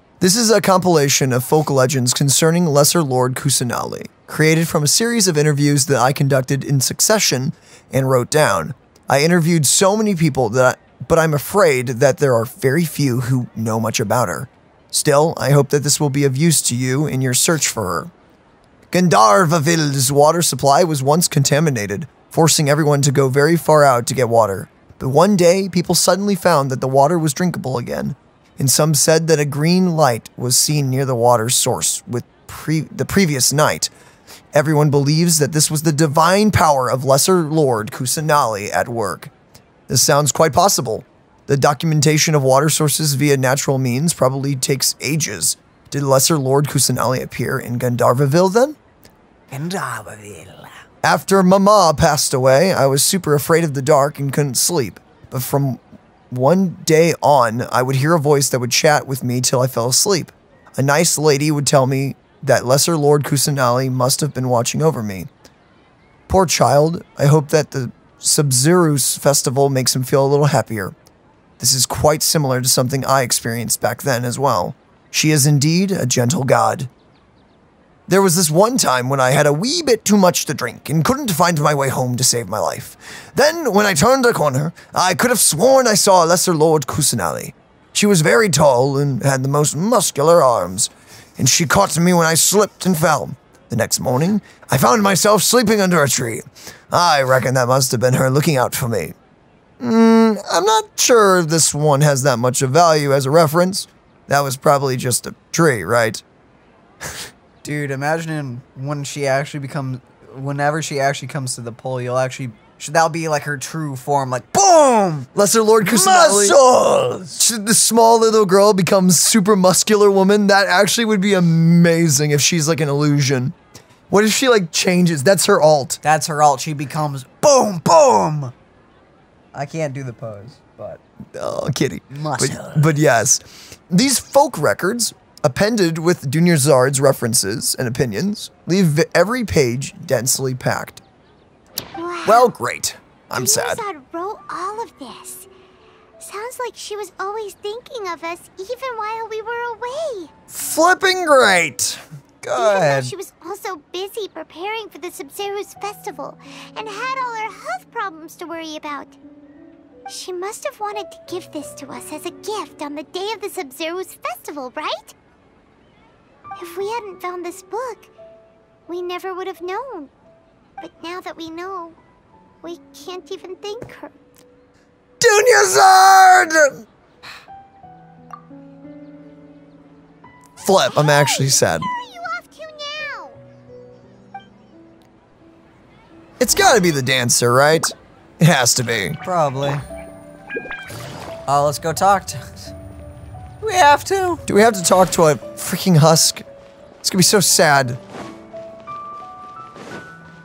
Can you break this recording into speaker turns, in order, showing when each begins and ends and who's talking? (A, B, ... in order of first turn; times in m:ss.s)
0:00.2-0:18.1 A
0:18.9-0:33.9 A
0:34.5-0:39.3 A
0:39.9-0:48.8 A
0:49.5-0:50.8 B
0:51.0-1:05.3 A
1:06.3-1:10.9 A
1:11.6-1:16.9 A
1:18.1-1:39.1 A
1:39.8-1:46.2 A
1:47.6-1:55.3 B
1:55.3-1:56.6 A
1:55.8-1:57.4 B
1:57.4-2:03.5 A
2:04.1-2:06.0 A
2:06.0-2:08.5 B
2:09.5-2:11.0 B
2:11.3-2:21.0 A
2:12.1-2:12.9 B
2:22.0-2:22.5 C
2:22.2-2:23.8 A
2:23.3-2:25.5 C
2:26.2-2:30.3 C
2:30.5-2:32.0 A
2:32.4-2:33.1 B
2:32.5-2:39.2 C
2:40.1-2:45.1 C
2:46.6-2:48.1 C
2:48.9-2:50.1 C
2:50.8-2:52.0 C
2:52.6-2:54.2 C
2:55.2-2:56.8 A
3:00.6-3:01.9 A
3:00.9-3:03.4 C
3:06.4-3:09.2 A
3:09.2-3:09.8 B
3:11.5-3:12.7 B
3:13.6-3:14.4 B
3:14.5-3:16.4 A
3:17.0-3:18.0 A